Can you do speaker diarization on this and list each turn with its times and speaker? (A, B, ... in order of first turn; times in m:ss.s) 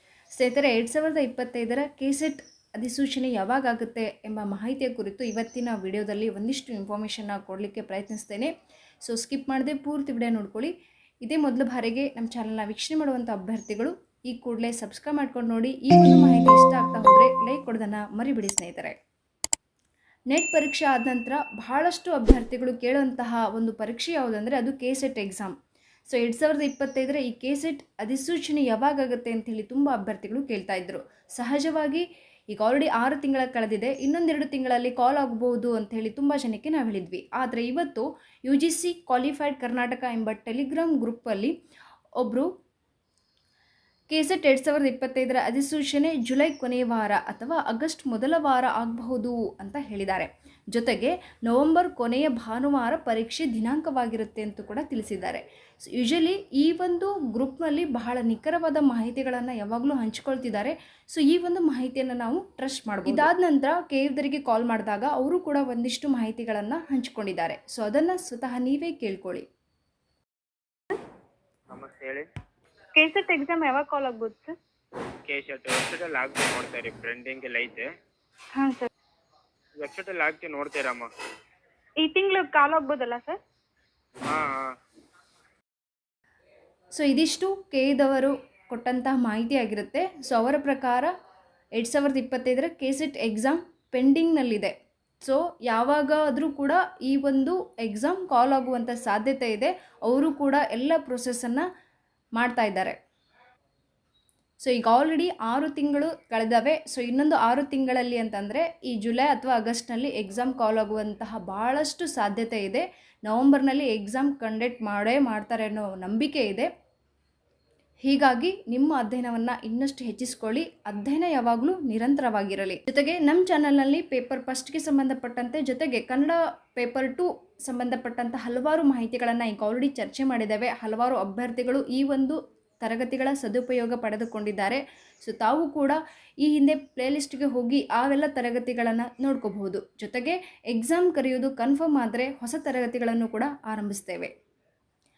0:00.3-0:08.5 A
0:09.0-0:10.7 A
0:11.2-0:19.0 A
0:20.3-0:25.5 A
0:26.1-0:41.5 A
0:42.2-0:42.5 A
0:44.1-0:55.4 A
0:55.9-1:09.4 A
1:11.7-1:12.2 B
1:13.0-1:14.5 C
1:15.3-1:17.9 B
1:18.5-1:18.9 C
1:19.8-1:21.1 B
1:22.0-1:23.4 C
1:24.3-1:24.7 B
1:27.0-1:31.1 A
1:31.8-1:41.7 A
1:42.4-1:43.0 A
1:44.6-1:56.7 A
1:58.0-2:24.3 A